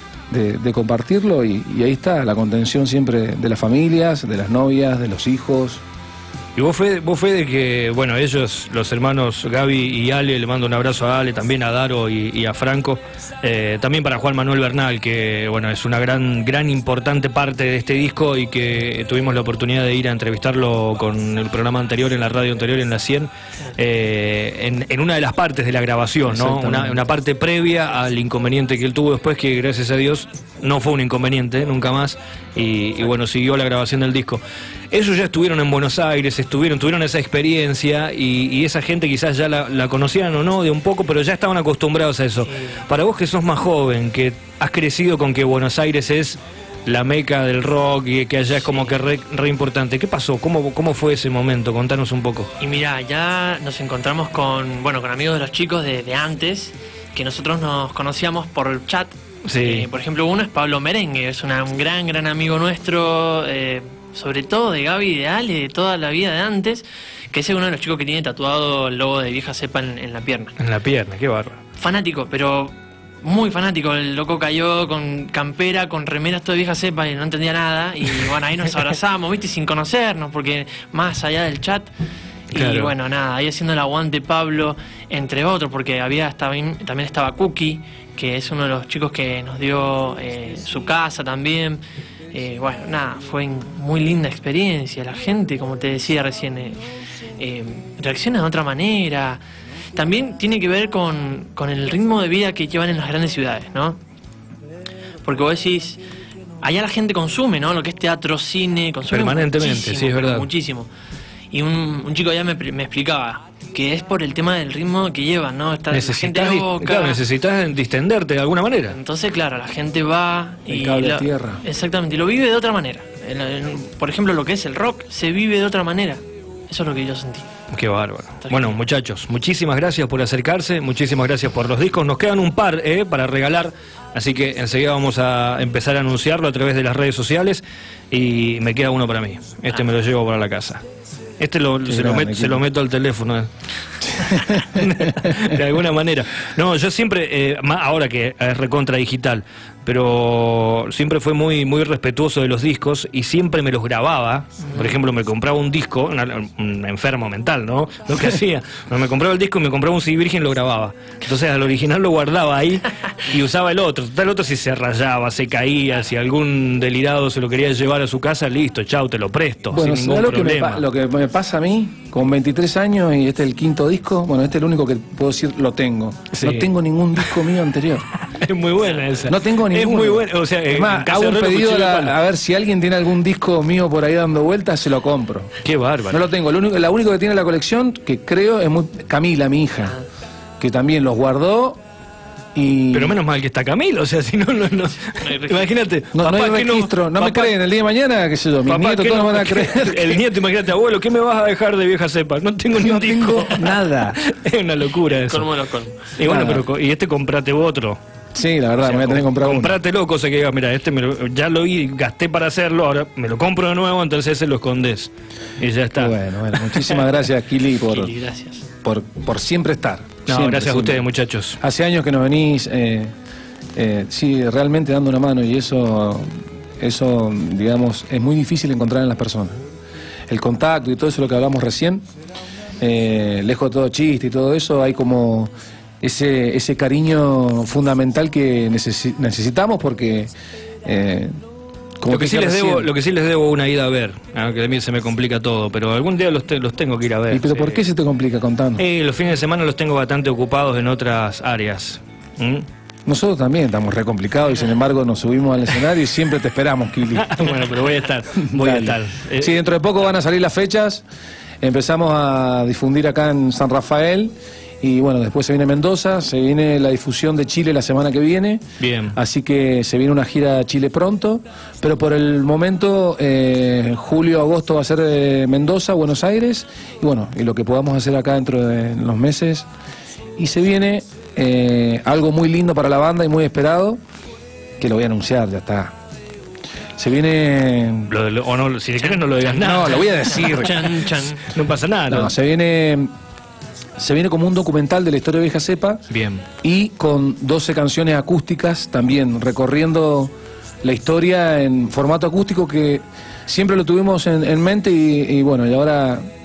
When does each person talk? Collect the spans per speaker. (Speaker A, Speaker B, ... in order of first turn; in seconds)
Speaker A: 0.3-5.8, 26.3-27.0, 120.7-121.6, 141.8-142.6, 144.1-145.4, 169.7-178.1, 179.2-185.6, 186.1-190.0, 190.6-191.8, 192.5-193.2, 196.1-200.2, 202.7-204.2, 206.2-206.6, 208.3-209.8, 215.9-218.1, 218.8-221.0, 221.6-223.1, 223.7-229.6, 230.3-232.0, 232.8-240.3, 240.8-241.4, 242.0-242.9, 247.3-248.8, 253.1-257.5, 258.4-261.0, 261.6-279.7, 280.4-284.0, 284.8-285.9, 287.0-288.1, 289.5-290.9, 292.1-293.1, 294.0-296.1, 296.6-306.3
Speaker B: 6.5-52.5, 59.4-59.9, 70.6-71.6, 82.5-82.9, 109.1-110.5, 115.9-119.0, 127.7-140.8, 141.4-143.5, 144.0-170.9, 176.3-177.4, 178.2-182.1, 185.6-186.2, 192.9-197.6, 198.7-205.4, 206.2-208.0, 208.8-217.1, 220.3-221.6, 242.1-247.8, 248.8-252.7, 257.1-259.6, 268.8-269.1, 288.1-290.8, 291.4-292.3, 296.1-296.4
Speaker C: 42.5-42.8, 52.6-70.5, 71.8-81.9, 82.5-91.8, 92.3-96.8, 97.4-99.4, 99.9-104.0, 105.2-106.0, 106.6-110.9, 111.5-117.2, 118.9-127.5, 128.4-128.8, 195.2-195.8, 205.1-206.1, 217.8-218.7, 289.0-291.5